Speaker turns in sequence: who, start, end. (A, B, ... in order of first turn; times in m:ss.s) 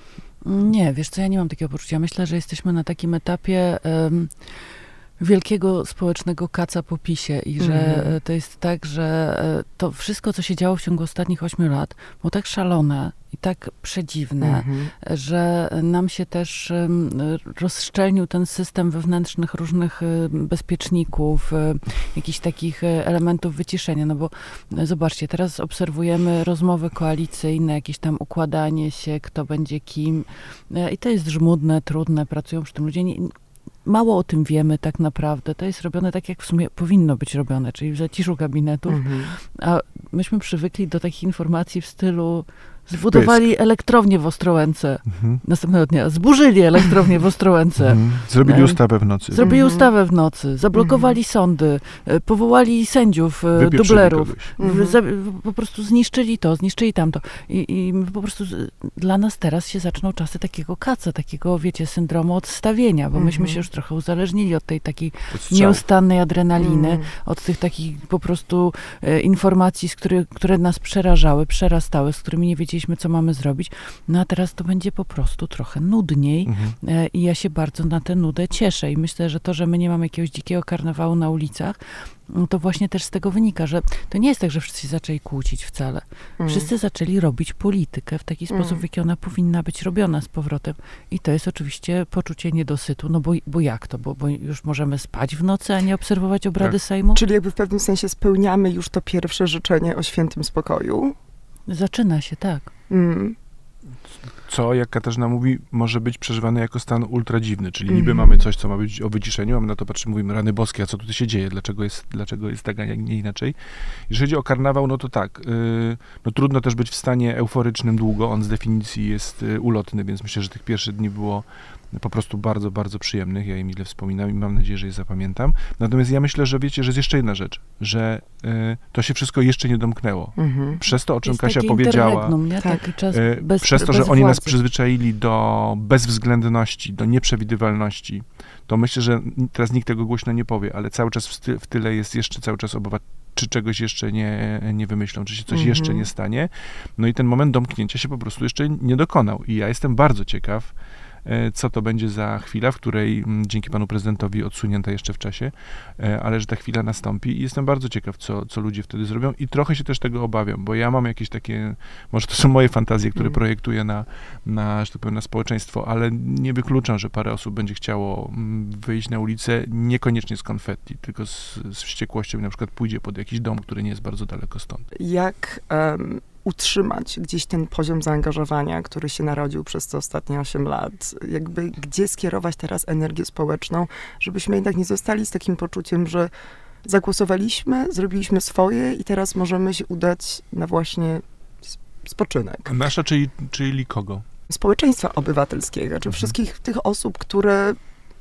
0:00.4-0:48.8 A
0:07.6-0:08.2 B
0:14.4-0:14.9 B
0:38.9-0:39.3 B
0:43.1-0:43.5 C
0:45.1-0:45.4 C
0:47.8-0:49.4 C
0:49.3-1:37.2 A
0:49.4-0:49.9 B
0:50.8-0:51.1 B
0:53.6-0:54.5 C
0:54.6-0:55.0 B
1:03.2-1:03.6 B
1:05.3-1:05.8 C
1:06.6-1:07.1 B
1:16.5-1:16.8 C
1:26.4-1:26.7 B
1:28.5-1:28.8 B
1:37.2-1:41.2 B
1:41.7-1:42.7 A
1:42.9-1:43.4 B
1:44.3-2:12.4 C
1:47.9-1:48.4 B
2:10.4-2:10.8 B
2:11.2-2:14.6 A
2:13.1-2:30.7 C
2:25.5-2:26.1 B
2:31.2-2:54.8 C
2:55.0-3:06.3 B
3:06.8-3:12.7 B
3:12.7-3:14.3 C
3:14.5-3:17.8 B
3:16.1-3:16.4 C